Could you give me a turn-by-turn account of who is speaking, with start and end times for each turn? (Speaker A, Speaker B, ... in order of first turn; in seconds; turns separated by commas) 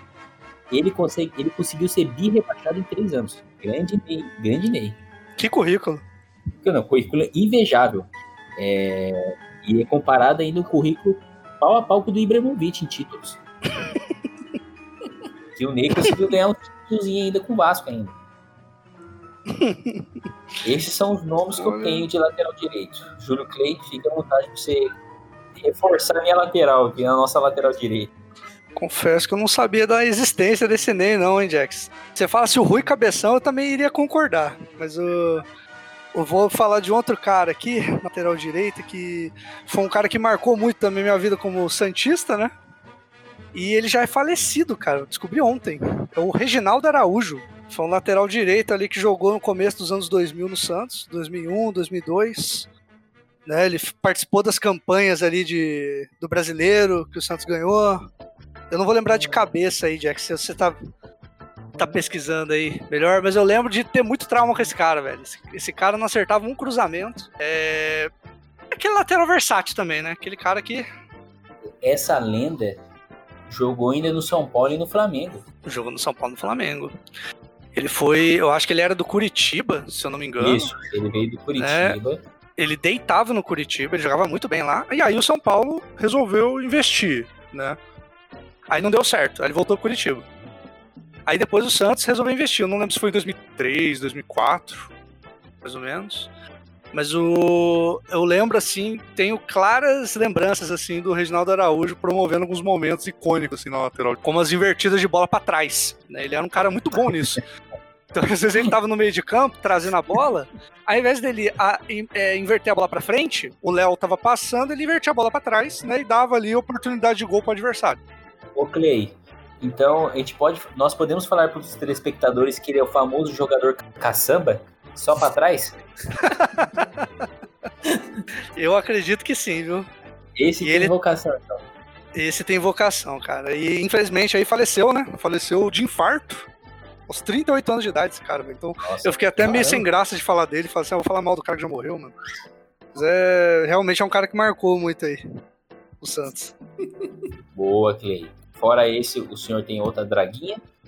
Speaker A: 0.7-5.0, Speaker B: 5.4-6.0, Speaker A: 6.6-13.4, Speaker A: 15.6-18.1, Speaker B: 19.5-20.0, Speaker A: 20.6-24.9, Speaker B: 21.6-22.1, Speaker A: 25.6-28.1, Speaker B: 28.8-35.5, Speaker B: 36.1-42.5, Speaker B: 43.5-52.7, Speaker B: 53.5-58.1, Speaker B: 58.7-60.8, Speaker B: 61.8-68.1, Speaker B: 68.8-70.8, Speaker A: 71.8-72.8, Speaker A: 73.5-75.4, Speaker B: 75.7-76.9, Speaker B: 77.8-80.7, Speaker A: 80.4-82.2, Speaker B: 81.6-82.0, Speaker B: 82.6-87.8, Speaker B: 88.7-90.3, Speaker B: 91.3-94.9, Speaker B: 95.6-96.3, Speaker B: 96.9-107.4, Speaker B: 108.1-118.0, Speaker A: 118.5-125.7, Speaker B: 126.2-126.8, Speaker B: 128.6-129.9, Speaker A: 130.4-131.7, Speaker B: 130.6-130.9, Speaker B: 132.2-136.5, Speaker B: 137.1-142.2, Speaker A: 138.8-139.9, Speaker B: 142.9-145.2, Speaker B: 146.0-146.5, Speaker A: 147.6-150.6